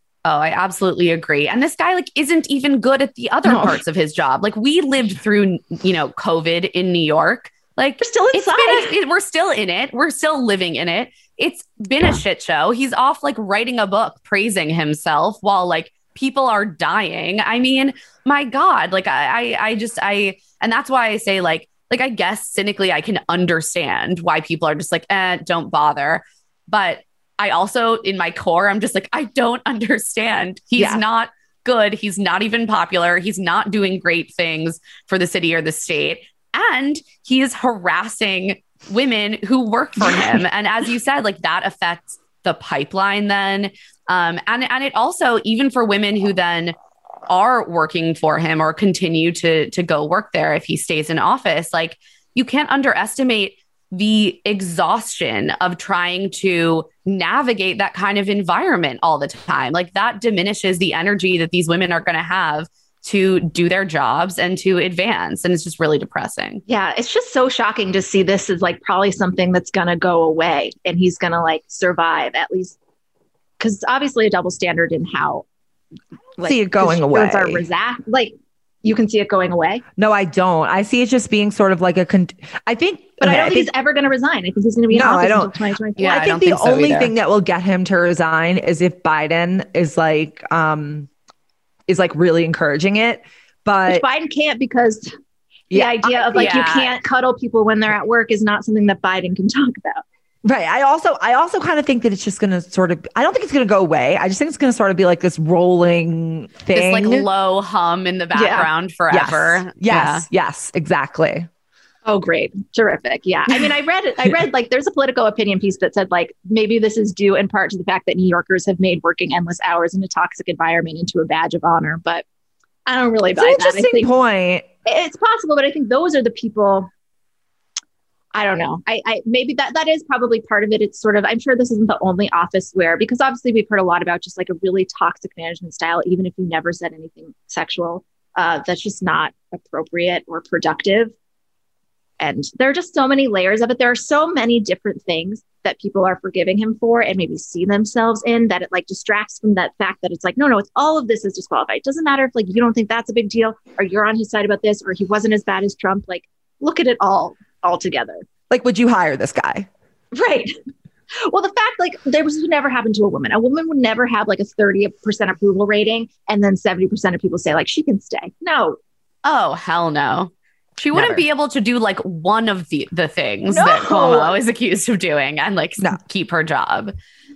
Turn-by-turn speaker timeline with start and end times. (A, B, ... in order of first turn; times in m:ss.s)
0:00.2-0:46.8 A
0:03.4-0:03.8 B
0:08.0-0:08.9 B
0:30.8-0:31.0 B
0:47.3-1:06.6 A
1:06.7-1:12.8 B
1:13.6-1:15.4 B
1:16.4-1:18.3 B
1:16.4-1:17.7 C
1:18.8-1:19.8 B
1:20.0-1:23.7 C
1:23.2-1:26.3 B
1:24.9-1:31.1 C
1:26.0-1:27.1 A
1:31.9-1:34.0 C
1:33.9-1:35.1 B
1:35.7-1:36.3 C
1:35.7-1:40.0 B
1:36.3-1:37.0 A
1:40.4-1:47.3 C
1:46.7-1:50.3 A
1:48.3-1:48.7 B
1:49.1-1:51.5 C
1:52.0-2:02.2 B
2:02.9-2:04.1 B
2:03.3-2:04.7 C
2:04.8-2:06.9 B
2:08.3-2:21.1 B
2:22.2-2:38.3 B
2:38.5-2:39.7 C
2:40.1-2:40.6 B
2:41.1-2:48.8 B
2:49.2-2:56.9 A
2:50.9-2:51.2 C
2:53.5-2:54.4 B